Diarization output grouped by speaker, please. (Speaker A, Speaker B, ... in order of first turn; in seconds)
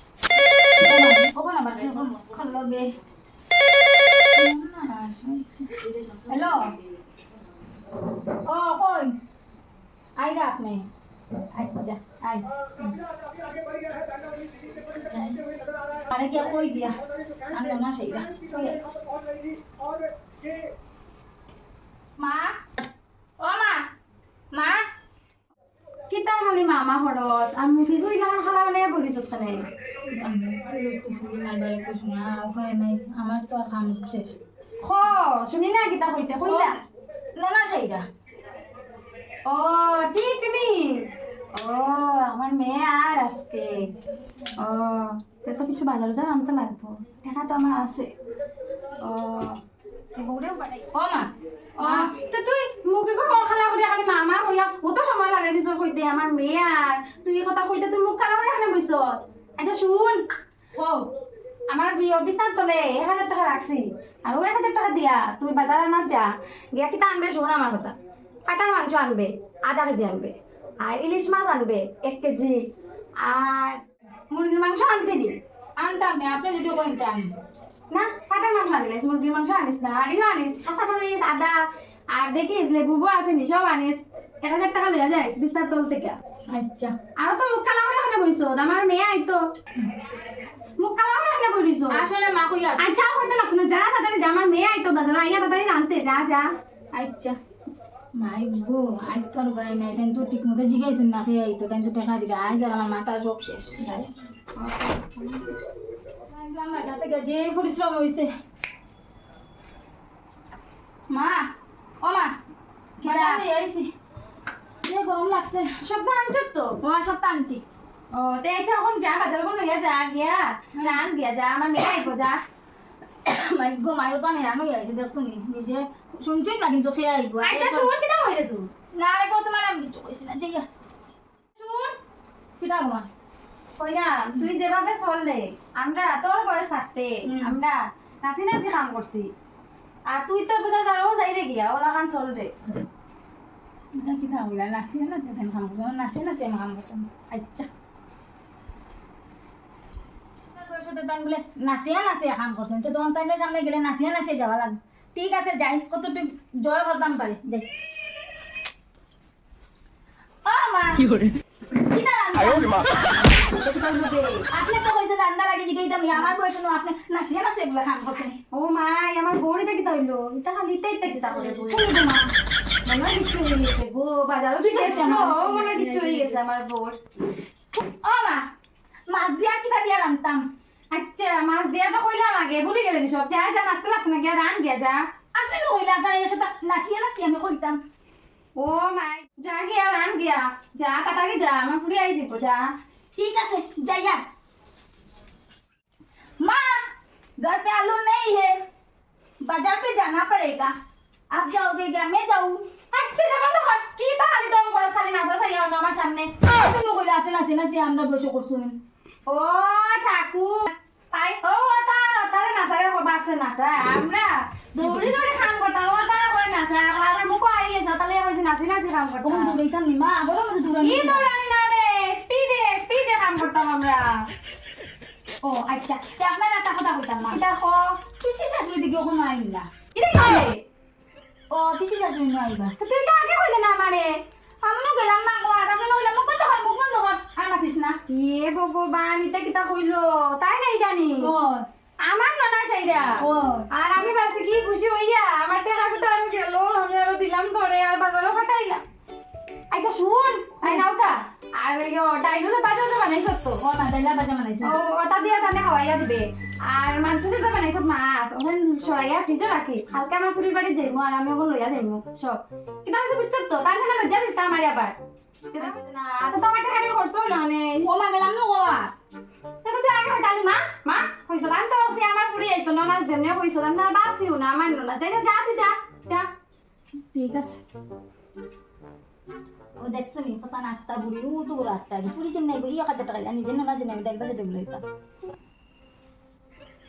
Speaker A: 0.8-2.9, 4.3-6.7, 8.3-9.2, 10.2-10.9, 11.5-13.0, 14.9-15.4, 16.1-16.9, 17.5-18.9, 22.2-22.6, 23.4-23.8, 24.5-24.8, 30.1-34.4, 36.4-36.8, 37.4-38.0, 47.3-48.0, 50.9-51.3, 51.8-52.1, 60.8-61.0, 75.8-77.3, 86.5-86.9, 91.9-92.9, 96.9-97.3, 98.2-104.1, 106.3-108.3, 111.1-111.5, 112.0-112.3, 113.0-113.9, 114.8-115.8, 116.8-117.6, 123.2-127.9, 129.0-130.6, 132.6-133.1, 137.2-137.6, 143.9-147.7, 150.5-157.7, 160.4-163.2, 164.5-168.4, 171.3-172.3, 174.6-176.4, 177.7-178.4, 179.1-180.4, 185.3-187.8, 193.1-194.2, 196.4-198.6, 199.4-200.7, 201.3-202.7, 206.4-208.8, 219.2-221.3, 225.4-227.4, 228.2-229.7, 231.5-232.8, 234.6-238.0, 241.2-241.7, 243.2-243.7, 253.6-254.7, 267.8-268.9, 277.1-277.6, 279.8-284.8
Speaker B: 26.1-29.6, 34.8-36.8, 39.5-43.9, 44.6-47.9, 49.0-49.6, 50.1-50.9, 51.8-60.2, 61.7-67.9, 68.5-72.6, 73.2-75.3, 77.9-81.6, 82.1-86.2, 87.2-89.4, 90.8-92.1, 92.8-96.5, 104.5-105.6, 113.0-113.4, 115.8-116.8, 118.1-122.4, 127.4-128.7, 131.5-131.9, 133.8-139.3, 140.1-142.5, 163.3-164.5, 168.5-171.9, 172.8-177.0, 180.9-185.1, 188.6-192.7, 202.9-206.3, 209.3-219.6, 220.8-224.3, 227.2-228.0, 229.9-230.6, 232.8-234.2, 238.1-241.3, 242.0-248.8, 249.7-253.6, 254.6-264.9, 265.5-268.1, 269.6-276.3